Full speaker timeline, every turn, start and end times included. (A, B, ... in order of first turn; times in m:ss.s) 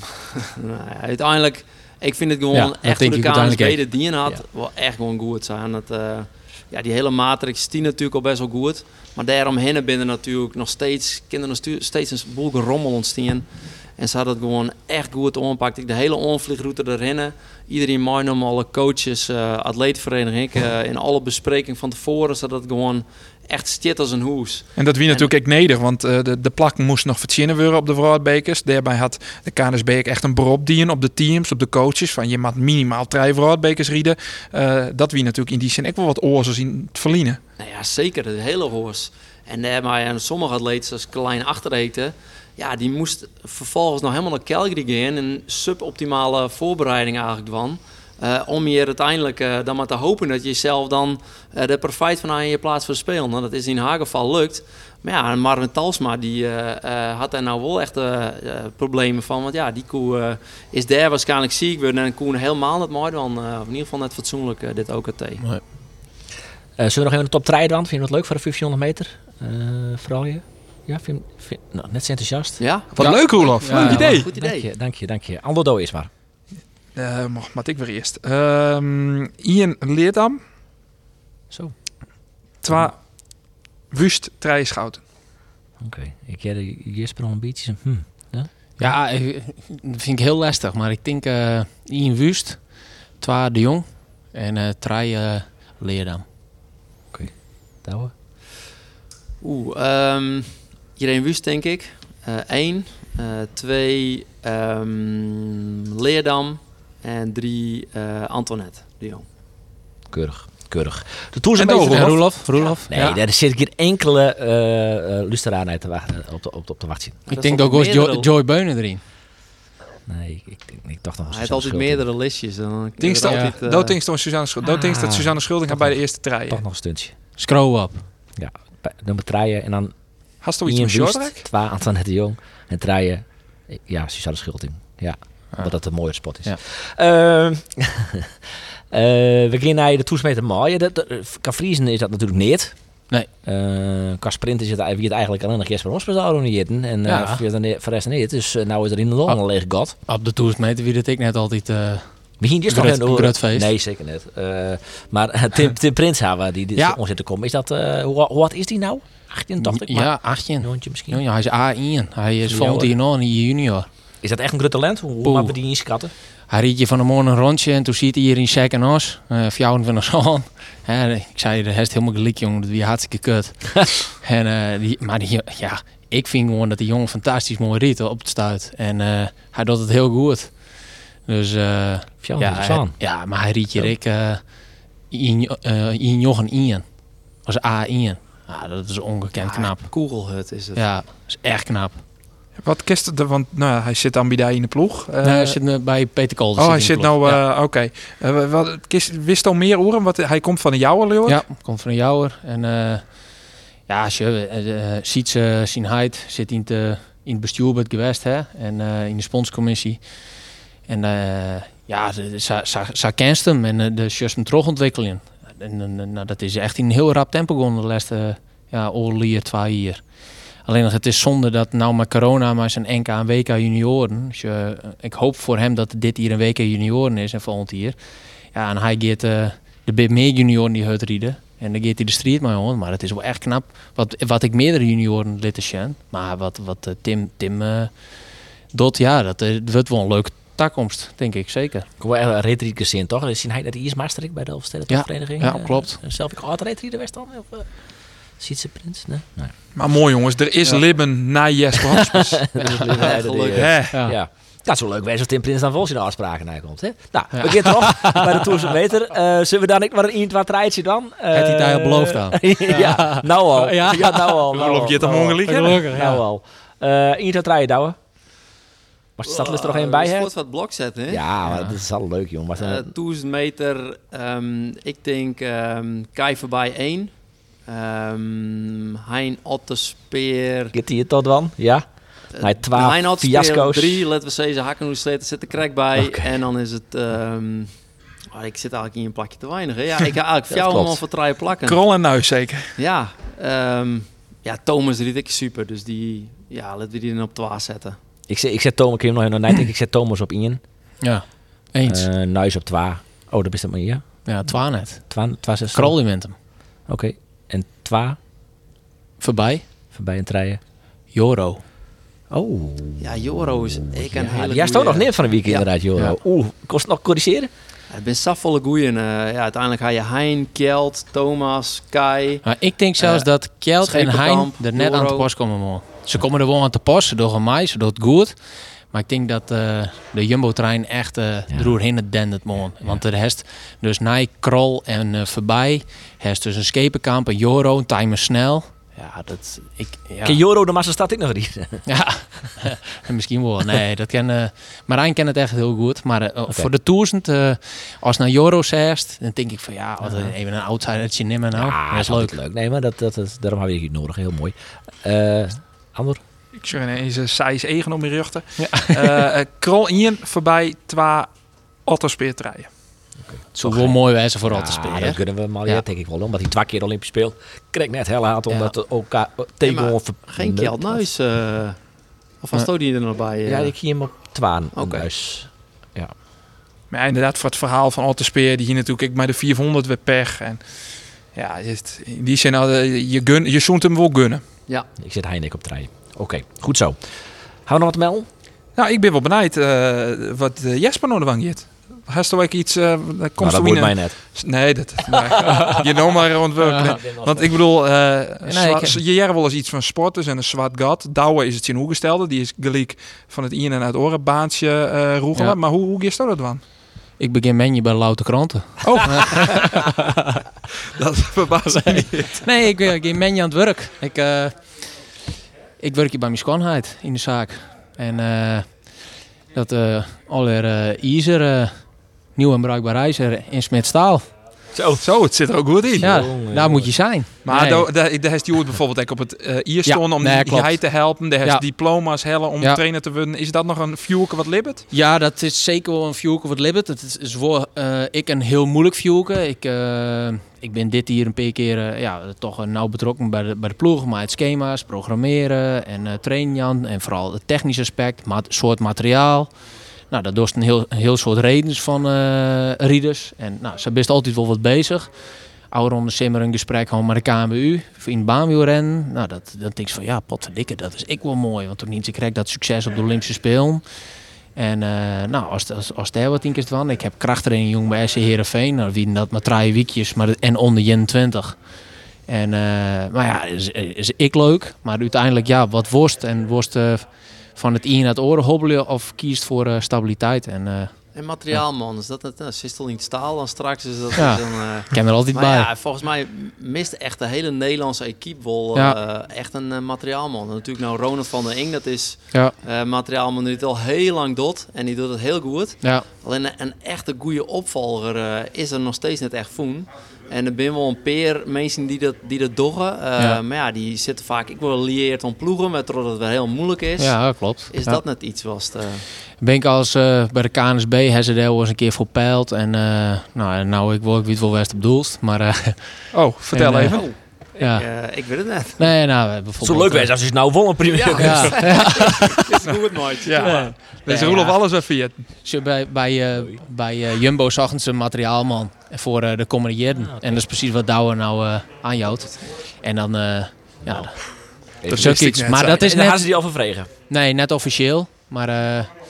0:00.4-0:25.3 A
0:02.5-0:03.9 B
0:24.8-0:37.4 C
0:37.6-1:05.4 A
1:06.8-1:16.1 D
1:12.6-1:14.7 A
1:12.9-1:14.3 C
1:13.6-1:14.1 B
1:17.0-1:20.4 C
1:21.5-1:22.9 D
1:22.6-1:25.0 C
1:25.8-1:28.9 D
1:28.8-1:36.2 B
1:37.1-1:38.1 D
1:39.4-1:49.2 A
1:50.1-1:57.2 D
1:51.6-1:52.3 C
1:51.9-1:53.2 B
1:57.3-1:58.3 A
1:57.3-1:59.0 B
2:00.0-2:02.0 D
2:01.3-2:04.0 A
2:03.0-2:06.6 C
2:04.6-2:07.1 D
2:07.4-2:08.1 B
2:08.4-2:18.3 D
2:10.4-2:11.4 C
2:15.5-2:16.6 B
2:18.9-2:30.0 D
2:27.1-2:27.4 B
2:30.0-2:33.7 B
2:32.4-2:41.2 D
2:39.6-2:43.9 B
2:42.5-2:43.0 D
2:44.2-2:46.1 D
2:45.2-2:45.6 B
2:46.5-3:04.6 B
3:02.2-3:03.1 D
3:05.1-3:09.9 B
3:09.4-3:10.8 A
3:10.8-3:12.0 B
3:12.6-3:15.6 C
3:15.2-3:17.4 B
3:16.6-3:21.5 C
3:21.3-3:40.1 B
3:40.6-3:48.0 B
3:48.5-4:01.9 B
4:02.0-4:09.6 D
4:04.9-4:06.0 B
4:09.7-4:12.4 C
4:12.2-4:28.0 D
4:12.6-4:13.0 B
4:13.0-4:13.8 A
4:13.5-4:14.0 C
4:13.9-4:14.2 B
4:17.3-4:18.5 B
4:21.3-4:26.2 B
4:24.5-4:25.9 C
4:29.2-4:30.3 D
4:29.2-4:31.2 A
4:31.1-4:32.9 D
4:31.4-4:31.8 B
4:32.6-4:40.7 A
4:40.7-4:44.0 D
4:42.3-4:51.8 A
4:46.0-4:46.3 D
4:50.5-4:51.0 D
4:51.7-4:52.7 C
4:52.8-4:58.0 A
4:58.3-5:00.6 D
5:01.0-5:02.1 B
5:01.8-5:04.6 D
5:04.2-5:06.4 B
5:05.1-5:06.0 D
5:06.8-5:08.2 D
5:09.2-5:09.7 B
5:09.9-5:10.6 D
5:11.1-5:11.6 B
5:12.3-5:17.5 D
5:13.0-5:15.7 A
5:17.9-5:22.4 A
5:22.4-5:40.4 B
5:23.0-5:25.3 A
5:31.5-5:31.8 D
5:40.2-5:41.9 D
5:41.9-5:52.4 B
5:50.0-5:50.4 D
5:51.5-5:56.2 D
5:56.6-6:02.7 C
5:58.6-5:59.1 B
6:03.2-6:11.0 D
6:03.5-6:05.8 B
6:09.6-6:13.8 A
6:13.5-6:16.1 D
6:14.7-6:15.1 A
6:16.9-6:24.4 C
6:25.0-6:28.3 D
6:28.8-6:46.6 C
6:33.4-6:34.2 D
6:35.2-6:36.2 D
6:36.6-6:37.0 B
6:36.7-6:37.6 D
6:38.5-6:39.0 B
6:47.2-6:50.0 B
6:48.8-6:50.0 C
6:51.0-6:52.5 C
6:51.8-6:55.0 B
6:55.8-7:04.3 B
7:04.7-7:05.0 D
7:05.0-7:06.1 C
7:06.0-7:07.0 D
7:06.0-7:07.9 B
7:07.4-7:14.9 C
7:09.9-7:11.6 B
7:14.9-7:29.5 B
7:30.1-7:35.1 B
7:35.7-7:43.8 B
7:44.6-7:51.6 B
7:52.3-8:00.9 B
8:01.2-8:29.1 A
8:04.2-8:05.7 B
8:27.0-8:28.0 B
8:29.4-8:37.9 B
8:36.1-8:37.1 C
8:36.9-8:38.8 A
8:38.8-8:40.1 B
8:39.6-8:42.3 D
8:40.9-8:43.7 A
8:41.2-8:42.5 B
8:43.2-8:45.2 C
8:43.4-8:43.7 D
8:44.1-8:44.6 B
8:45.4-8:54.3 B
8:50.0-8:50.4 D
8:53.8-8:54.1 D
8:54.8-8:56.9 D
8:54.9-8:55.8 C
8:54.9-8:56.3 B
8:57.1-8:58.9 B